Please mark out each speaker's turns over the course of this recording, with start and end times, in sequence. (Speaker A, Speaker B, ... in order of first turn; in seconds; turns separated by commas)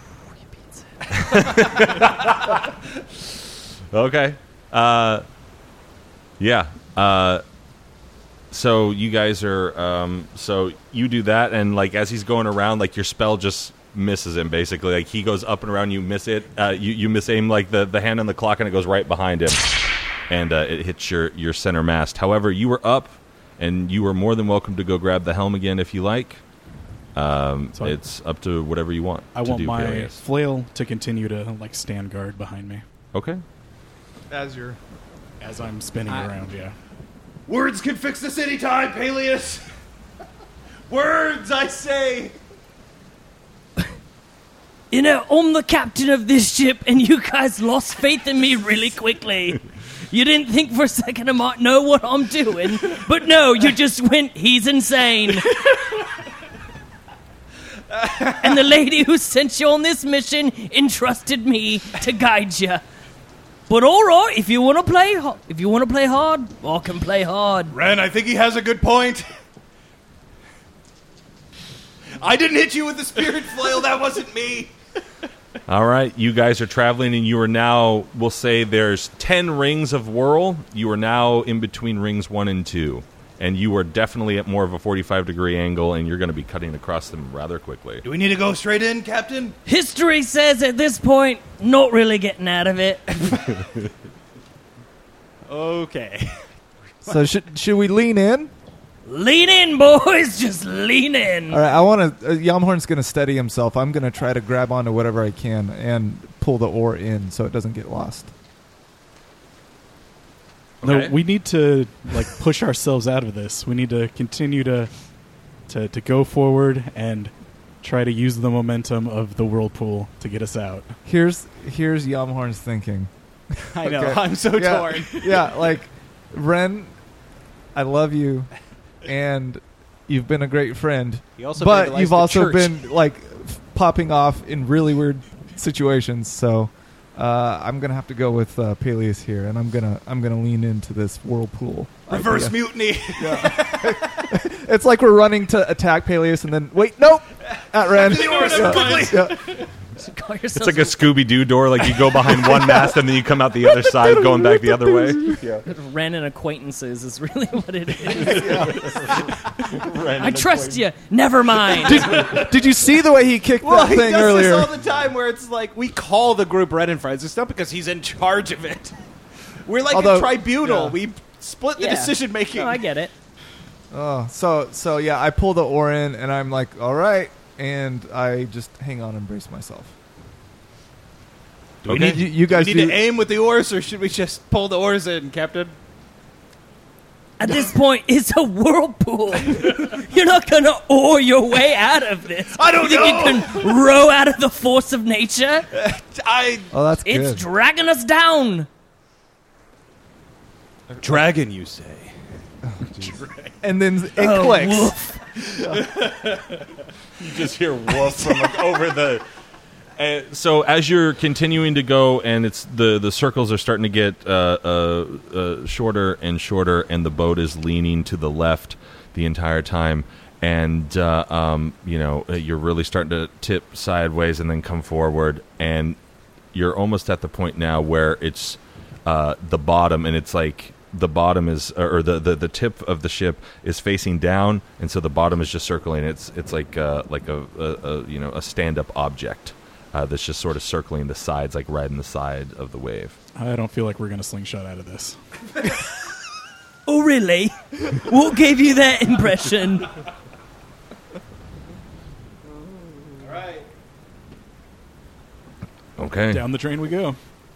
Speaker A: 0.5-1.6, Speaker B: 1.1-5.2, Speaker B: 6.4-7.4, Speaker B: 8.5-26.4, Speaker B: 27.1-30.2, Speaker C: 29.3-32.8, Speaker B: 33.1-33.4, Speaker D: 34.3-34.8, Speaker C: 35.4-36.8, Speaker E: 36.0-36.3, Speaker E: 37.5-39.7, Speaker E: 40.9-42.4, Speaker A: 44.9-55.8, Speaker A: 57.9-62.8, Speaker A: 63.7-67.8, Speaker E: 67.7-69.3, Speaker E: 72.2-74.7, Speaker B: 75.7-88.0, Speaker E: 88.0-89.6, Speaker A: 89.7-93.2, Speaker E: 93.2-93.5, Speaker E: 95.5-96.4, Speaker D: 97.0-98.5, Speaker A: 99.0-101.6, Speaker D: 101.5-108.3, Speaker B: 110.8-111.2, Speaker C: 110.8-114.9, Speaker C: 115.7-121.0, Speaker D: 121.0-127.0, Speaker E: 123.7-125.5, Speaker D: 127.7-128.5, Speaker D: 129.0-149.6, Speaker E: 131.4-132.8, Speaker E: 142.1-144.3, Speaker E: 147.8-149.6, Speaker A: 148.4-149.2, Speaker A: 150.0-151.2, Speaker B: 150.5-155.6, Speaker A: 155.7-159.3, Speaker D: 158.2-158.8, Speaker B: 158.5-160.8, Speaker A: 160.1-162.4, Speaker D: 161.8-164.7, Speaker E: 161.9-162.3, Speaker E: 163.6-169.0, Speaker E: 169.6-172.8, Speaker D: 169.9-171.0, Speaker A: 171.8-173.1, Speaker D: 173.9-179.9, Speaker E: 181.8-185.8, Speaker B: 181.8-182.2, Speaker D: 181.8-183.0, Speaker A: 187.4-195.7, Speaker E: 192.5-193.7, Speaker E: 195.7-196.7, Speaker D: 196.7-197.4, Speaker A: 197.0-198.7, Speaker E: 201.0-202.2, Speaker E: 202.8-203.6, Speaker D: 203.6-205.0, Speaker A: 204.2-205.2, Speaker E: 205.4-206.7, Speaker D: 205.6-205.8, Speaker B: 207.2-209.2, Speaker E: 208.1-208.7, Speaker B: 210.0-226.0, Speaker B: 226.5-243.2, Speaker C: 243.3-245.2, Speaker A: 246.8-250.0, Speaker E: 253.2-253.7, Speaker B: 256.0-256.4, Speaker C: 256.3-257.2